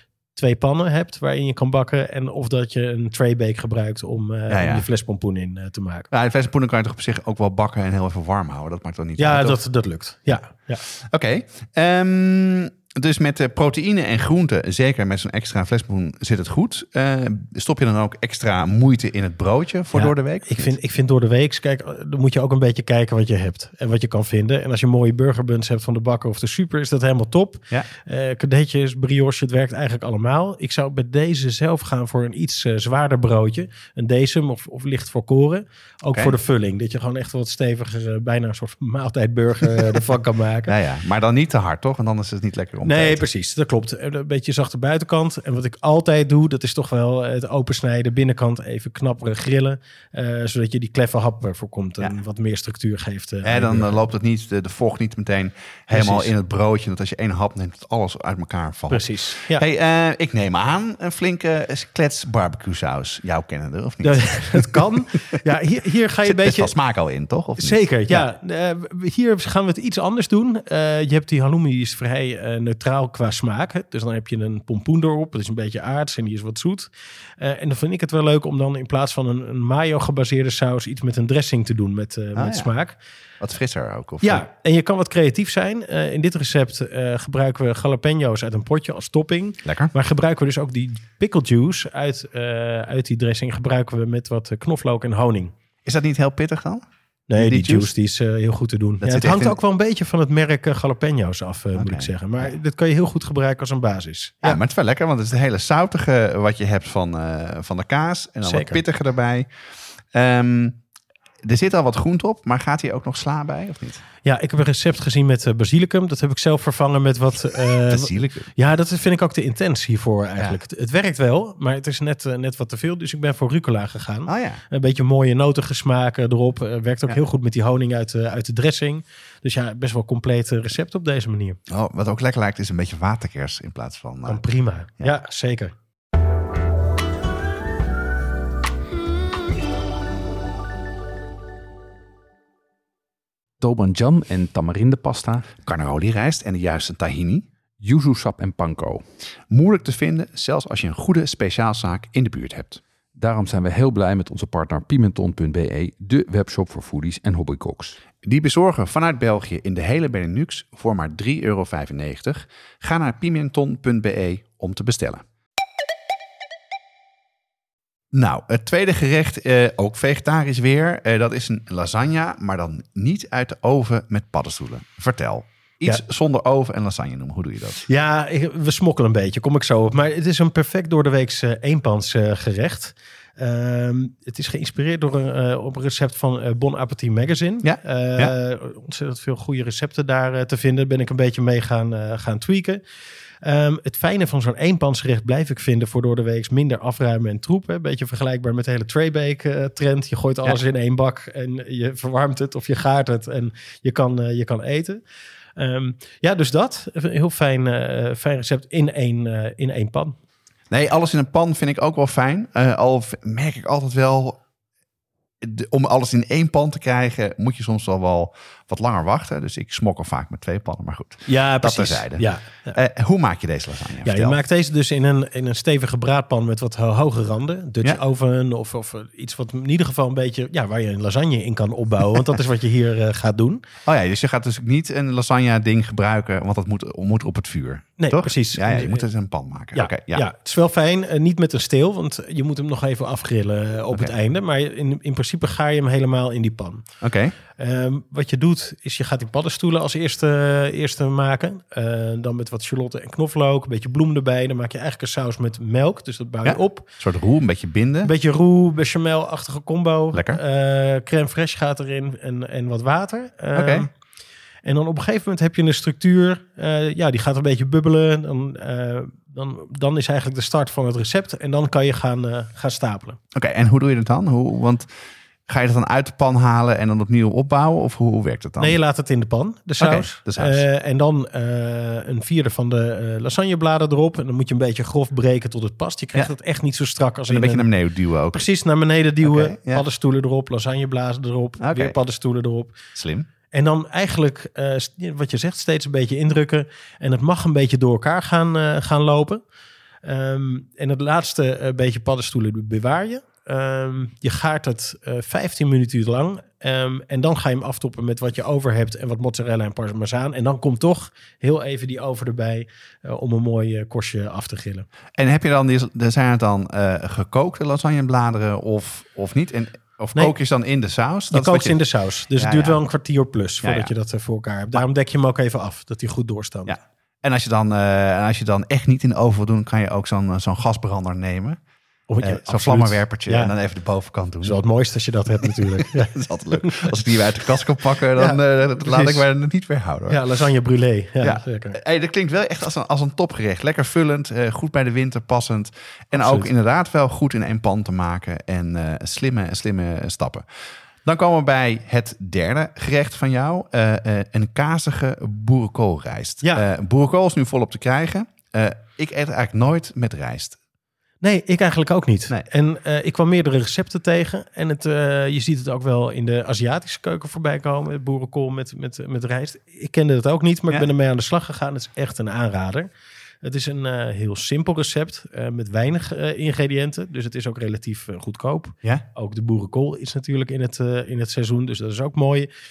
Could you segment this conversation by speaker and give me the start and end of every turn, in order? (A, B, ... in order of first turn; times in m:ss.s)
0:00.3-0:06.1 A
0:04.5-0:04.8 B
0:06.1-0:09.6 B
0:09.2-0:10.8 A
0:10.9-0:20.7 B
0:19.9-0:40.7 A
0:40.7-0:43.2 B
0:42.8-0:54.0 A
0:53.4-1:04.8 B
0:55.9-0:56.3 A
0:58.9-0:59.6 A
1:04.0-1:06.7 A
1:06.2-1:08.2 B
1:07.6-1:23.0 A
1:22.4-1:22.7 B
1:23.4-1:24.4 B
1:24.2-1:35.5 A
1:29.6-1:29.9 B
1:35.8-1:36.8 B
1:37.3-1:44.6 A
1:37.4-1:37.9 B
1:39.0-1:39.5 B
1:41.7-1:42.5 B
1:44.4-1:49.5 B
1:48.4-1:48.8 A
1:50.1-1:50.8 B
1:51.4-1:54.0 B
1:54.2-2:11.6 A
1:57.9-1:58.5 B
2:04.3-2:04.6 B
2:11.7-2:14.4 B
2:14.2-2:15.7 A
2:23.6-2:25.5 C
2:25.6-2:27.4 B
2:27.8-2:29.0 C
2:29.5-2:32.8 B
2:33.2-2:38.0 C
2:38.2-2:45.2 B
2:48.1-2:57.8 B
2:57.8-3:12.8 A
3:07.6-3:08.3 B
3:13.4-3:25.0 A
3:25.6-3:30.1 A
3:30.7-3:34.4 B
3:35.4-3:44.4 B
3:41.3-3:42.8 A
3:44.0-3:53.6 A
3:53.8-4:00.2 B
3:58.0-3:59.1 A
3:59.7-4:06.8 A
4:07.0-4:07.3 B
4:07.6-4:16.8 A
4:16.4-4:18.1 B
4:18.0-4:23.9 A
4:20.1-4:20.4 B
4:23.5-4:23.9 B
4:24.6-4:33.2 A
4:33.3-4:34.9 B
4:35.5-4:38.8 B
4:38.6-4:47.7 A
4:39.8-4:40.6 B
4:47.3-4:48.4 B
4:48.3-4:52.8 A
4:49.2-4:49.8 B
4:51.6-4:52.0 B
4:52.9-4:53.3 B
4:53.5-4:59.4 A
5:00.0-5:14.9 A
5:15.2-5:21.8 B
5:21.3-5:26.8 A
5:22.3-5:22.8 B
5:23.6-5:23.9 B
5:26.7-5:31.6 B
5:32.1-5:33.5 A
5:32.2-5:34.6 B
5:34.4-5:37.0 A
5:35.8-5:40.2 B
5:38.1-5:39.2 A
5:40.1-5:41.8 A
5:41.2-5:50.4 B
5:46.1-5:46.5 A
5:51.0-6:00.6 B
6:01.2-6:12.9 A
6:13.4-6:22.5 A